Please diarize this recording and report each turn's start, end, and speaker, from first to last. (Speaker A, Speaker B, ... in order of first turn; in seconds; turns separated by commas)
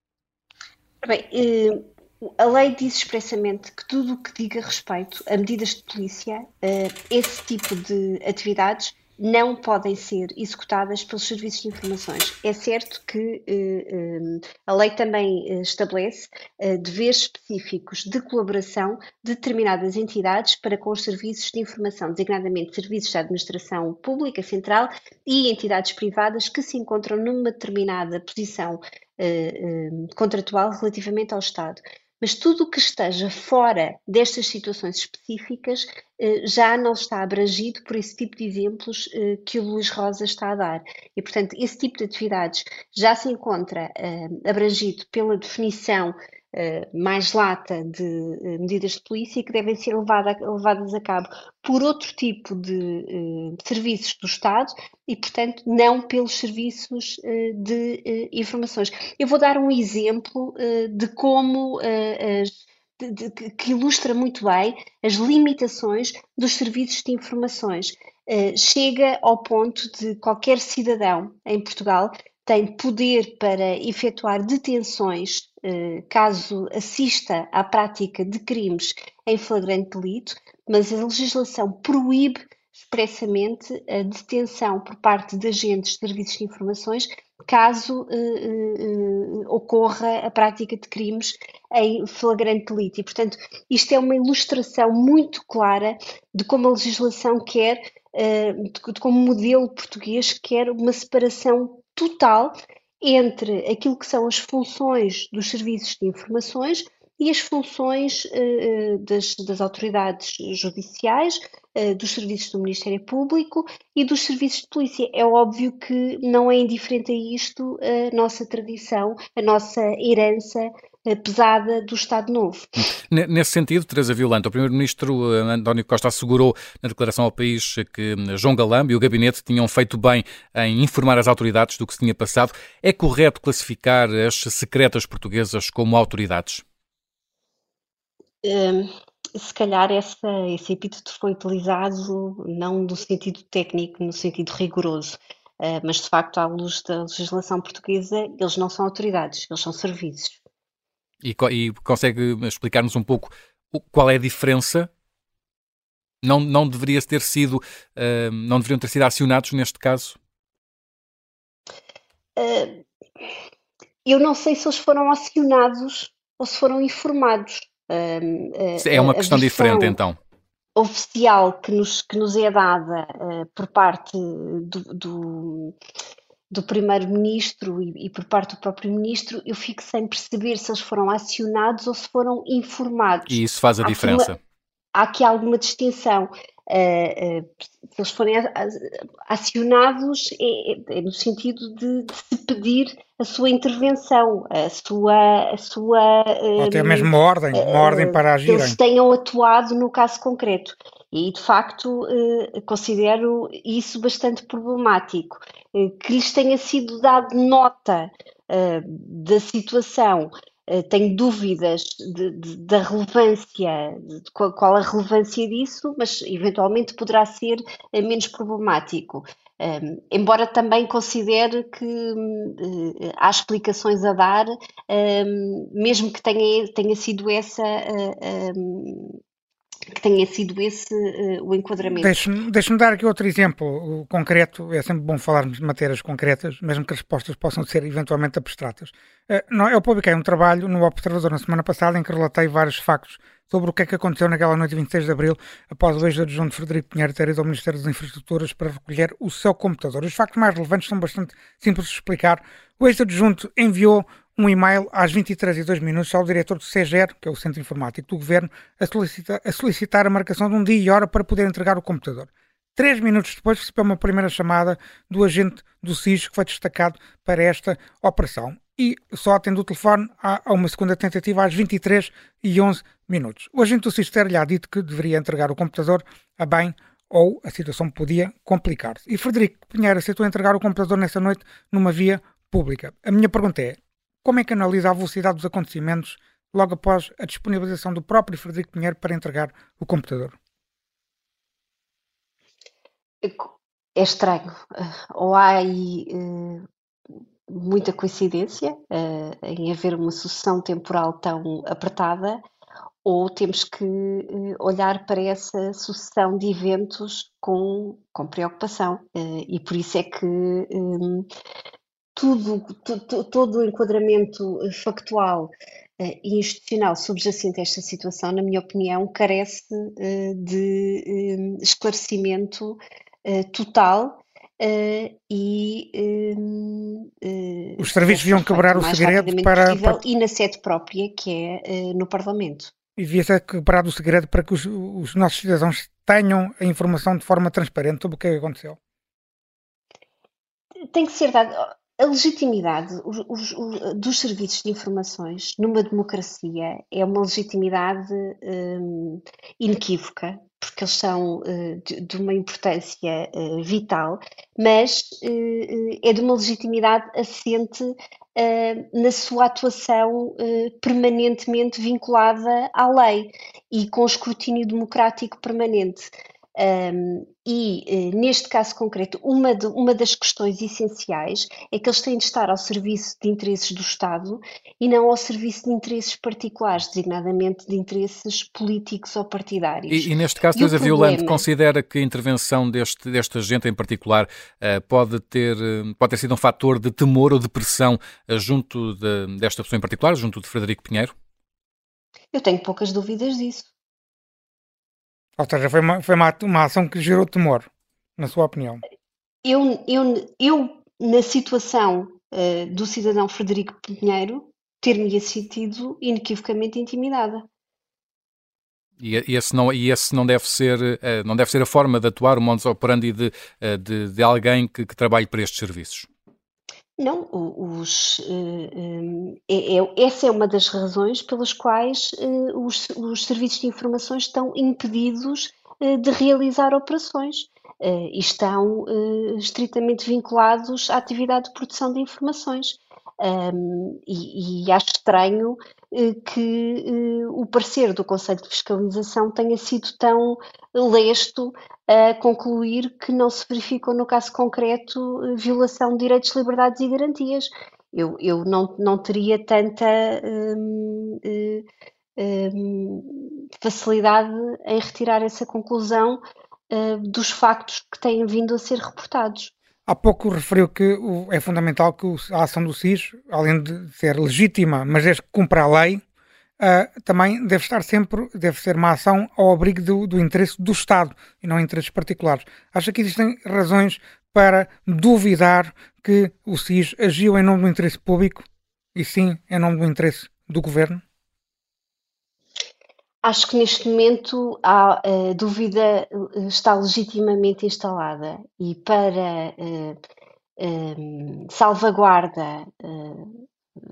Speaker A: 1.0-122.7, Speaker B: 123.1-136.6, Speaker A: 138.4-150.4, Speaker B: 151.2-154.9, Speaker B: 156.2-160.2, Speaker A: 162.4-162.8, Speaker A: 164.1-170.0, Speaker B: 168.8-170.2, Speaker A: 170.8-175.8, Speaker A: 176.5-184.3, Speaker B: 183.3-184.4, Speaker A: 184.9-229.2, Speaker C: 196.6-198.8, Speaker A: 229.9-232.2, Speaker C: 232.0-290.4, Speaker A: 293.2-296.7, Speaker A: 297.5-302.4, Speaker A: 303.1-311.3, Speaker A: 312.2-332.7, Speaker C: 327.8-330.0, Speaker C: 333.0-338.8, Speaker A: 340.9-381.4, Speaker B: 379.9-391.1, Speaker A: 392.3-393.7, Speaker C: 395.4-398.8, Speaker A: 399.4-407.4, Speaker B: 409.0-416.1, Speaker A: 417.0-451.7, Speaker A: 452.2-459.5, Speaker C: 459.9-466.0, Speaker C: 466.6-478.4, Speaker C: 478.9-481.0, Speaker A: 483.2-490.0, Speaker A: 490.6-493.4